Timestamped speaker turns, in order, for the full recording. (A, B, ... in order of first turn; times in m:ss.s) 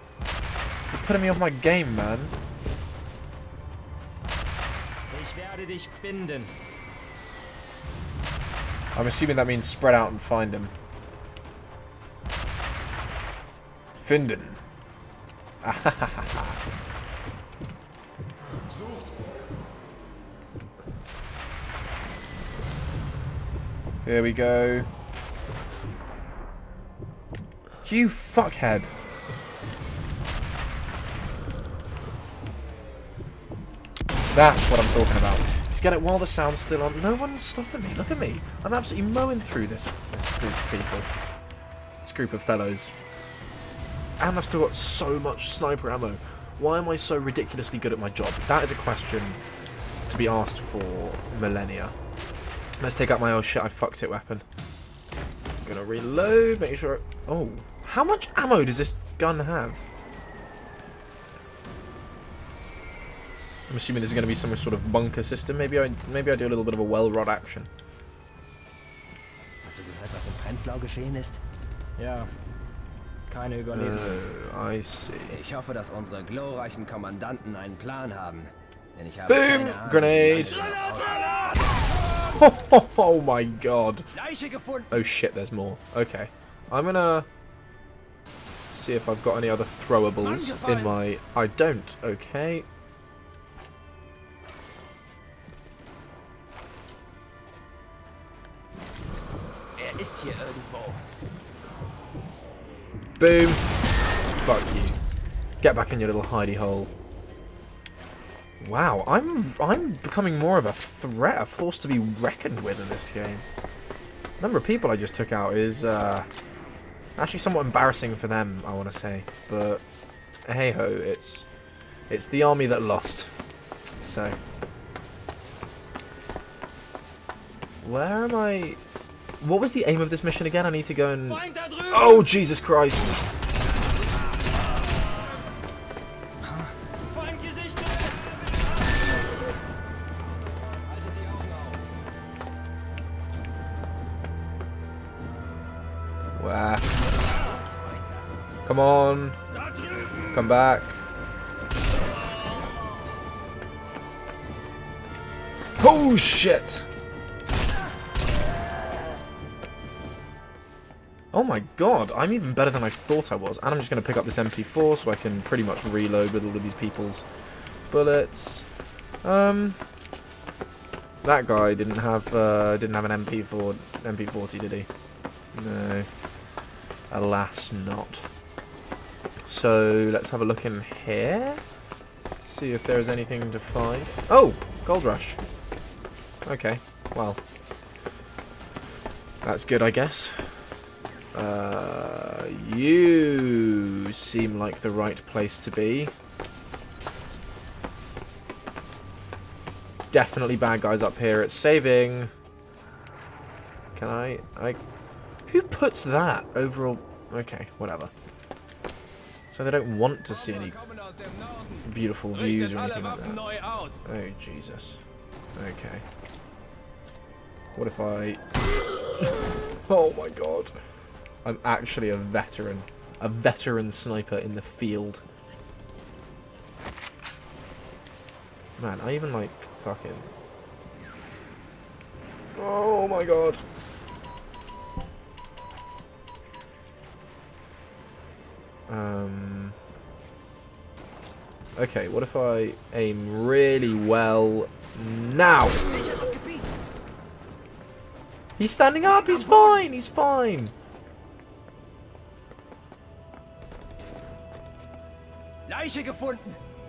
0:00.9-0:02.3 A
0:05.1-0:06.5 B
0:08.9-0:10.7 A
0:14.0-0:14.6 A
0:15.6-0:16.6 A
0:24.0-0:24.9 A
0:27.8-0:28.9 A
0:34.3-0:41.1 A
0:42.0-0:42.9 A
0:44.2-0:49.4 A
0:50.1-0:51.9 A
0:52.8-0:54.4 A
0:55.6-0:59.8 A
1:03.7-1:07.7 A
1:09.6-1:11.4 B
1:12.0-1:12.3 B
1:13.3-1:14.3 B
1:13.7-1:15.4 A
1:15.3-1:21.7 B
1:19.3-1:20.6 A
1:22.3-1:24.1 A
1:24.2-1:24.9 B
1:24.9-1:27.3 A
1:28.7-1:32.6 A
1:30.5-1:30.8 B
1:39.8-1:41.0 B
1:43.2-1:43.6 A
1:44.4-1:45.0 A
1:45.6-1:46.9 A
1:48.6-1:53.4 A
1:54.4-1:56.3 A
1:57.2-1:59.8 A
2:00.4-2:01.4 A
2:02.1-2:03.3 A
2:04.0-2:04.4 A
2:07.8-2:08.8 A
2:09.4-2:13.2 A
2:16.6-2:18.1 B
2:20.8-2:21.8 B
2:26.4-2:26.9 A
2:27.6-2:28.3 B
2:28.6-2:29.4 A
2:30.3-2:31.0 A
2:35.8-2:36.8 A
2:41.3-2:47.2 A
2:47.9-2:48.7 A
2:49.2-2:49.8 A
2:51.2-2:54.9 A
2:55.5-2:56.1 A
2:57.1-2:58.2 A
2:59.5-3:01.6 A
3:02.4-3:05.4 A
3:06.4-3:07.4 A
3:09.4-3:10.6 A
3:11.3-3:16.1 A
3:20.1-3:22.3 A
3:23.9-3:24.8 A
3:25.5-3:28.1 A
3:29.5-3:30.8 A
3:30.6-3:31.8 B
3:31.8-3:35.0 A
3:32.5-3:34.0 B
3:35.6-3:36.0 A
3:37.8-3:38.4 A
3:39.2-3:40.8 A
3:41.4-3:45.2 A
3:48.8-3:50.3 A
3:52.6-3:53.6 A
3:58.9-3:59.8 A
4:01.8-4:05.8 A
4:05.8-4:06.8 B
4:08.6-4:10.7 A
4:09.2-4:09.8 B
4:15.7-4:16.6 B